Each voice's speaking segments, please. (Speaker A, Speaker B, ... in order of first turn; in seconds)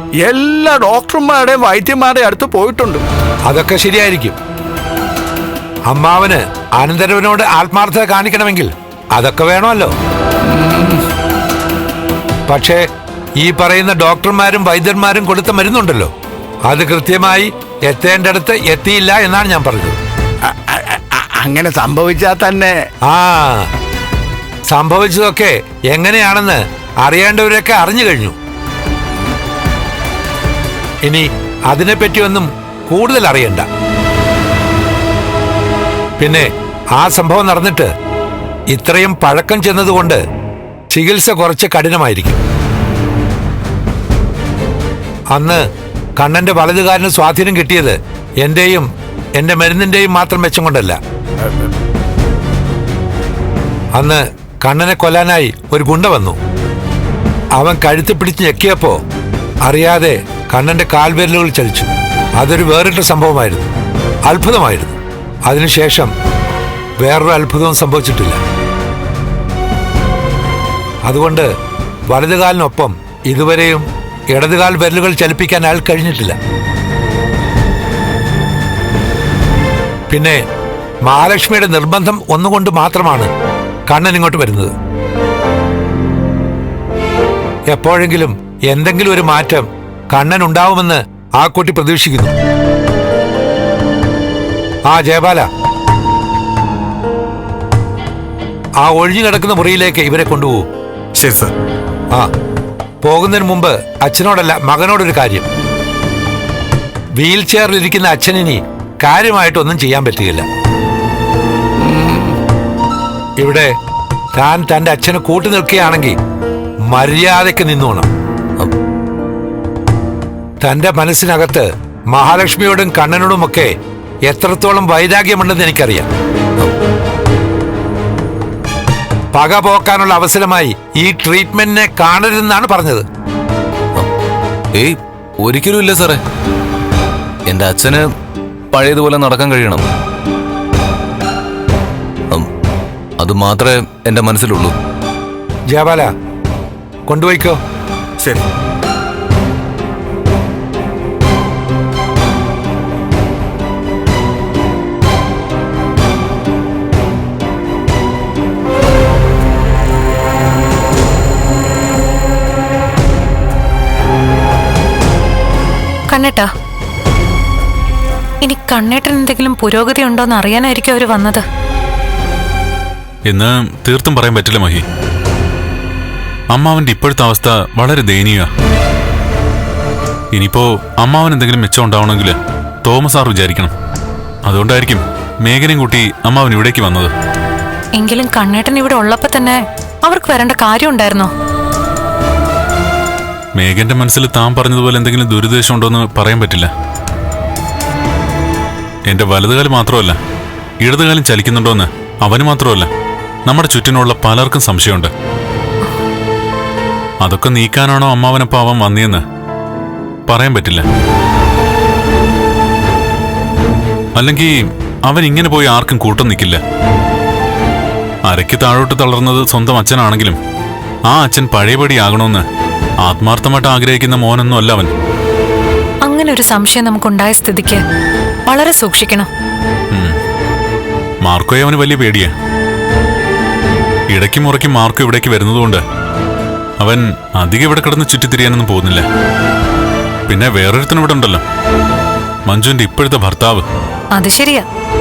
Speaker A: 0.2-3.0, 10.5-11.0, 20.5-22.7, 111.8-112.3
Speaker B: 3.5-4.3, 5.9-9.9, 12.5-12.8, 13.4-16.1, 16.7-20.0, 23.1-23.7, 24.7-28.3, 31.1-33.7, 36.2-37.9, 38.7-40.2, 40.9-42.4, 45.3-45.6, 46.2-48.9, 49.4-51.0, 54.0-56.4, 57.6-59.0, 59.6-63.7, 64.3-65.0, 65.5-66.1, 67.0-68.4, 71.1-71.5, 72.1-76.3, 80.1-80.4, 81.1-83.3, 83.9-84.7, 87.7-92.3, 94.9-95.5, 98.8-100.6, 103.0-105.4, 107.2-110.4, 113.4-113.7, 114.4-116.1, 116.9-118.1, 120.6-123.7, 124.3-126.1, 129.3-133.0, 145.7-146.1, 147.1-147.6
Speaker C: 134.8-136.2, 137.5-138.0, 138.7-139.8, 143.2-144.7
Speaker D: 166.1-166.5, 168.4-171.4, 188.0-191.3, 226.0-227.8, 228.5-229.3, 244.1-244.6
Speaker E: 173.2-174.8, 176.5-178.5, 180.3-183.7, 184.4-187.1, 193.6-196.7, 199.1-200.2, 200.8-202.9, 203.5-205.1, 207.2-209.2, 210.3-210.8, 214.2-214.5, 215.1-216.6, 218.3-220.4, 221.1-222.4, 223.0-224.9, 231.2-232.3, 234.1-235.8, 236.8-239.0, 240.3-241.4, 242.5-243.6